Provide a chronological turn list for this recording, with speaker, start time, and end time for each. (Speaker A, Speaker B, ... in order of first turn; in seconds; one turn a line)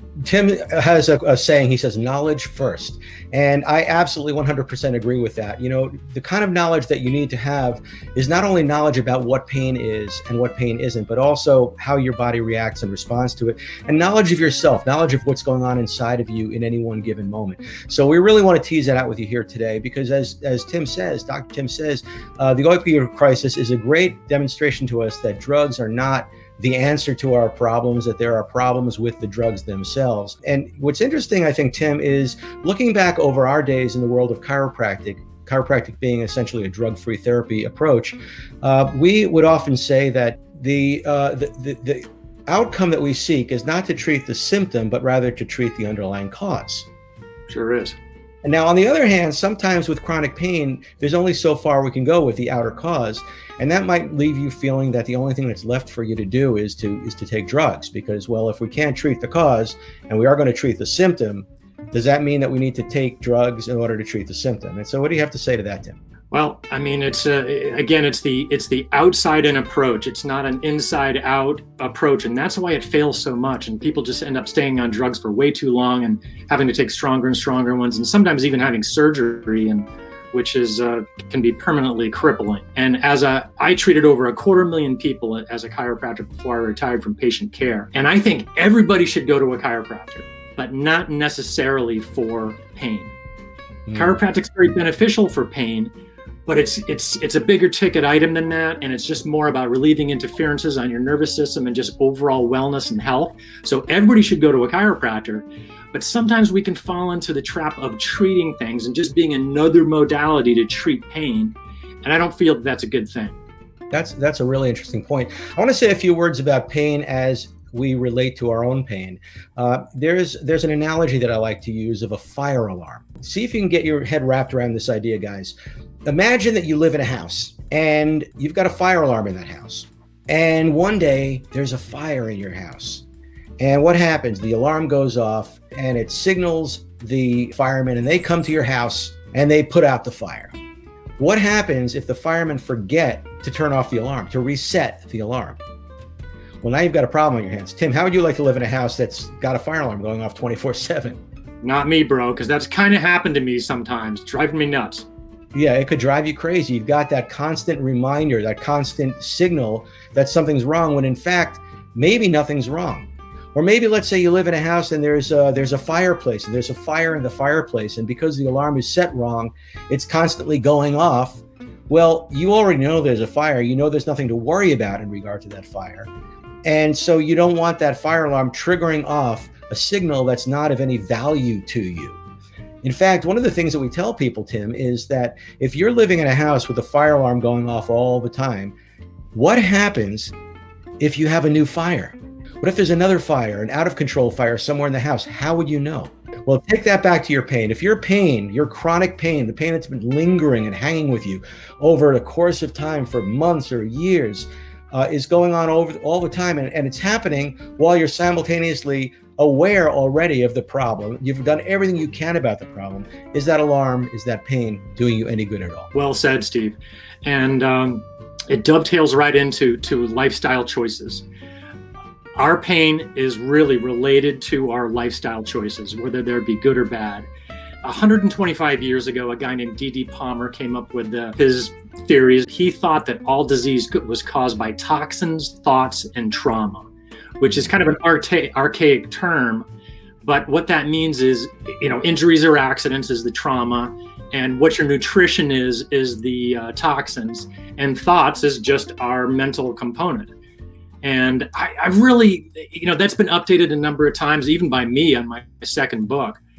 Speaker A: 0.2-46.9
Speaker B: 47.5-48.0
Speaker A: 48.4-66.0
Speaker B: 66.3-93.1
Speaker A: 93.9-94.1
Speaker B: 93.9-95.9
Speaker B: 96.5-113.4
Speaker A: 113.9-133.1
Speaker A: 133.6-140.5
Speaker A: 141.2-145.6
Speaker A: 146.6-151.2
Speaker B: 151.6-155.1
Speaker A: 155.5-176.1
Speaker A: 176.7-182.2
Speaker A: 182.8-188.8
Speaker A: 189.3-190.3
Speaker A: 191.0-215.9
Speaker B: 215.9-221.2
Speaker B: 222.4-227.3
Speaker B: 227.8-236.9
Speaker B: 237.4-239.7
Speaker B: 240.2-250.3
Speaker B: 251.0-256.4